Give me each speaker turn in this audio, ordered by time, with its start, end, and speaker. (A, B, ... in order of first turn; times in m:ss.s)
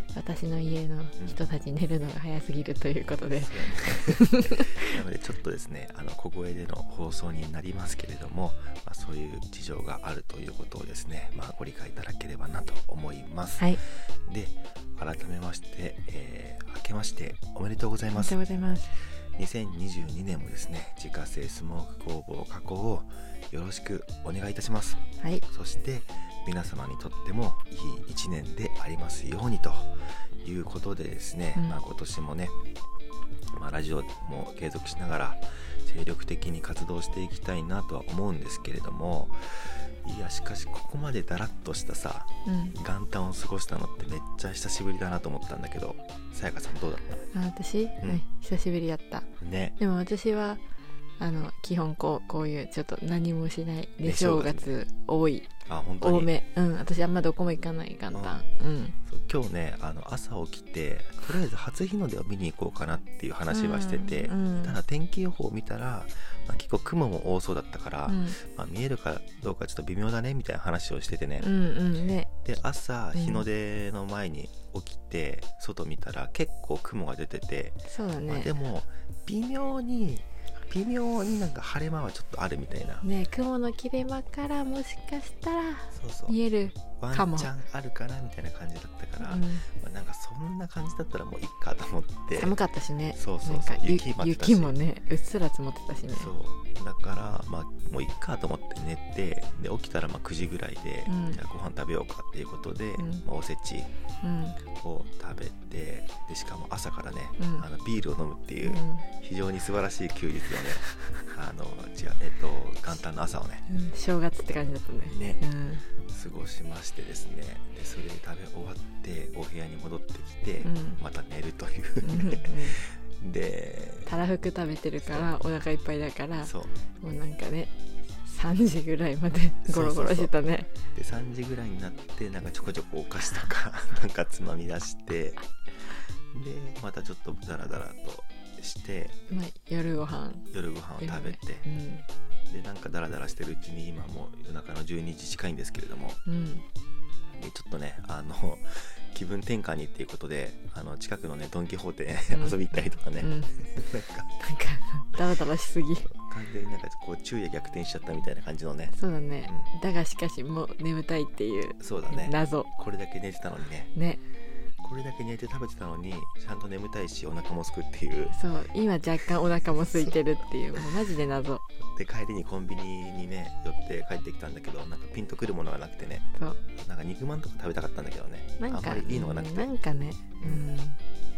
0:00.1-0:05.0 A
0:03.0-0:18.4 B
0:18.2-0:18.9 A
0:18.9-0:32.6 B
0:33.5-0:47.2 B
0:42.4-0:42.8 A
0:47.3-0:50.6 A
0:49.4-0:49.8 B
0:51.2-0:55.5 A
0:54.0-0:54.7 B
0:55.7-0:56.3 B
0:56.0-0:59.0 A
0:59.1-1:11.6 B
1:03.5-1:04.8 A
1:08.1-1:08.4 A
1:11.4-1:12.3 A
1:12.3-1:23.1 B
1:13.1-1:13.4 A
1:17.9-1:18.5 A
1:23.0-1:27.5 A
1:25.9-1:26.4 B
1:27.0-1:32.5 B
1:29.2-1:29.7 A
1:32.4-1:36.3 A
1:33.2-1:34.8 B
1:36.1-1:43.9 B
1:41.1-1:41.4 A
1:43.0-1:43.2 A
1:44.2-1:44.6 A
1:44.7-1:53.6 B
1:47.4-1:47.7 A
1:48.6-1:49.1 A
1:53.7-1:55.9 A
1:55.1-1:55.4 B
1:56.1-2:04.2 B
2:00.6-2:01.0 A
2:02.0-2:02.8 A
2:04.1-2:07.7 A
2:05.0-2:05.3 B
2:06.4-2:06.8 B
2:08.2-2:10.7 A
2:09.7-2:10.3 B
2:10.9-2:19.2 B
2:19.3-2:20.5 A
2:20.5-2:21.6 B
2:21.0-2:22.0 A
2:22.5-2:26.2 B
2:26.3-2:26.6 A
2:27.3-2:34.3 B
2:32.3-2:33.7 A
2:34.4-2:36.1 A
2:36.1-2:39.7 B
2:38.9-2:42.7 A
2:41.8-2:43.9 B
2:43.9-2:44.2 A
2:44.8-2:48.4 B
2:48.3-2:51.6 A
2:51.9-2:59.7 B
2:58.6-3:01.0 A
3:00.4-3:00.7 B